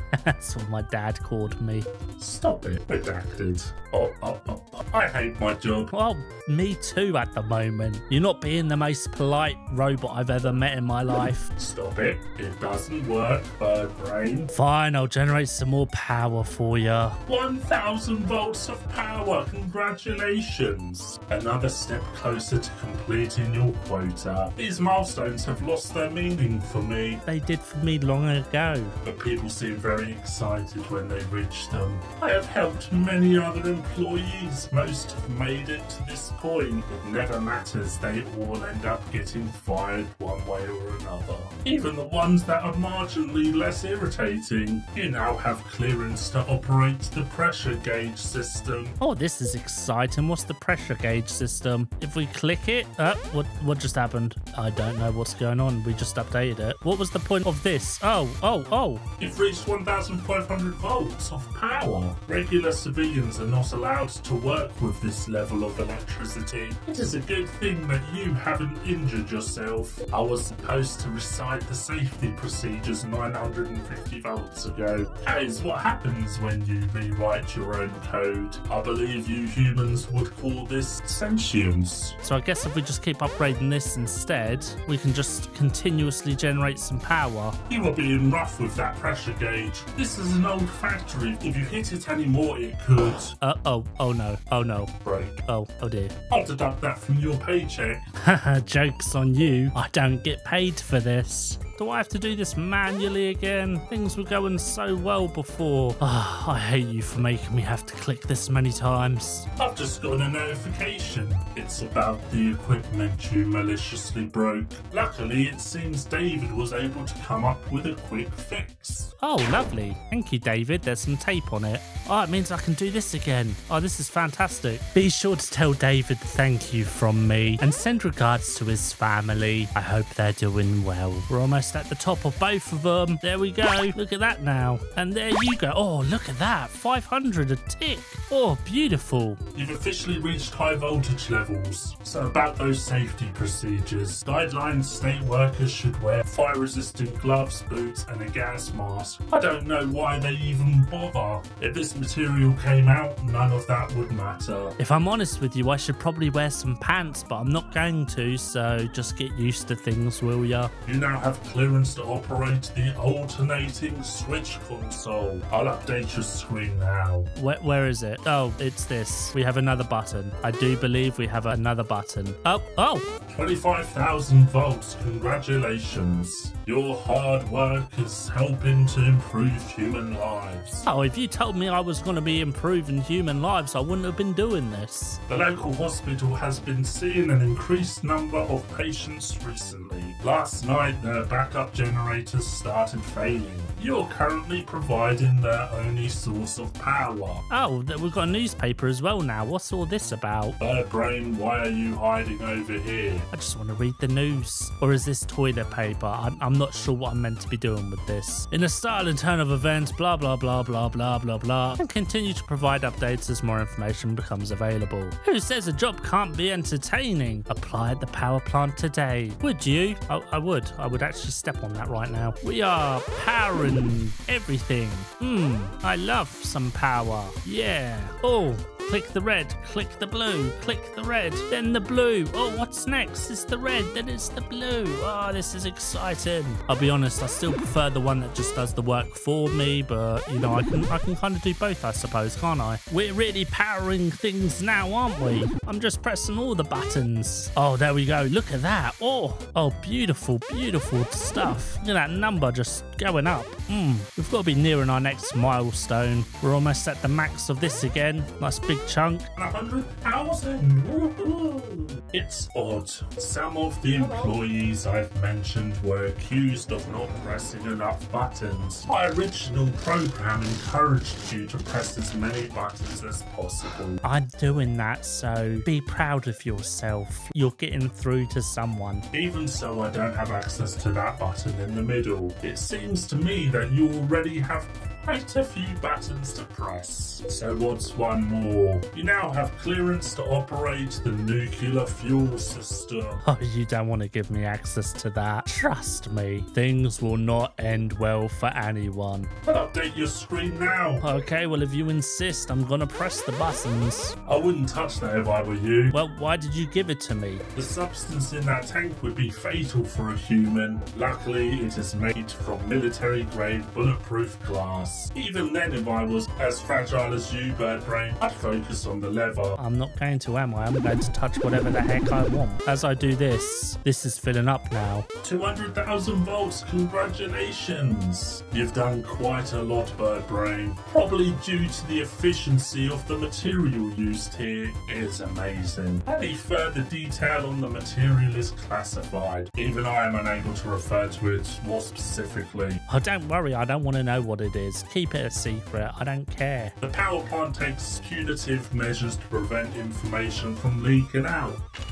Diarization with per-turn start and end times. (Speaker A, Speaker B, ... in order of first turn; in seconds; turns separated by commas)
Speaker A: 0.2-1.9, Speaker B: 2.2-5.9, Speaker A: 5.9-11.5, Speaker B: 11.6-14.5, Speaker A: 14.5-17.2, Speaker B: 17.3-27.2, Speaker A: 27.2-28.9, Speaker B: 29.0-49.0, Speaker A: 49.0-59.0, Speaker B: 59.2-82.2, Speaker A: 82.2-87.6, Speaker B: 87.7-93.3, Speaker A: 93.4-94.9, Speaker B: 95.0-95.4, Speaker A: 95.5-96.1, Speaker B: 96.3-98.1, Speaker A: 98.2-109.5, Speaker B: 109.6-119.1, Speaker A: 119.2-139.4, Speaker B: 139.5-154.8, Speaker A: 154.8-160.7, Speaker B: 160.8-167.3, Speaker A: 167.3-173.0, Speaker B: 173.3-180.8, Speaker A: 180.8-185.2, Speaker B: 185.3-197.4, Speaker A: 197.5-200.6, Speaker B: 200.6-203.3, Speaker A: 203.3-259.3, Speaker B: 259.3-274.0, Speaker A: 274.0-279.0, Speaker B: 279.1-293.2, Speaker A: 293.2-299.3, Speaker B: 299.4-301.0, Speaker A: 301.0-304.1, Speaker B: 304.2-305.9, Speaker A: 305.9-307.4, Speaker B: 307.5-319.6, Speaker A: 319.6-325.1, Speaker B: 325.2-342.8, Speaker A: 342.9-346.7, Speaker B: 346.8-351.6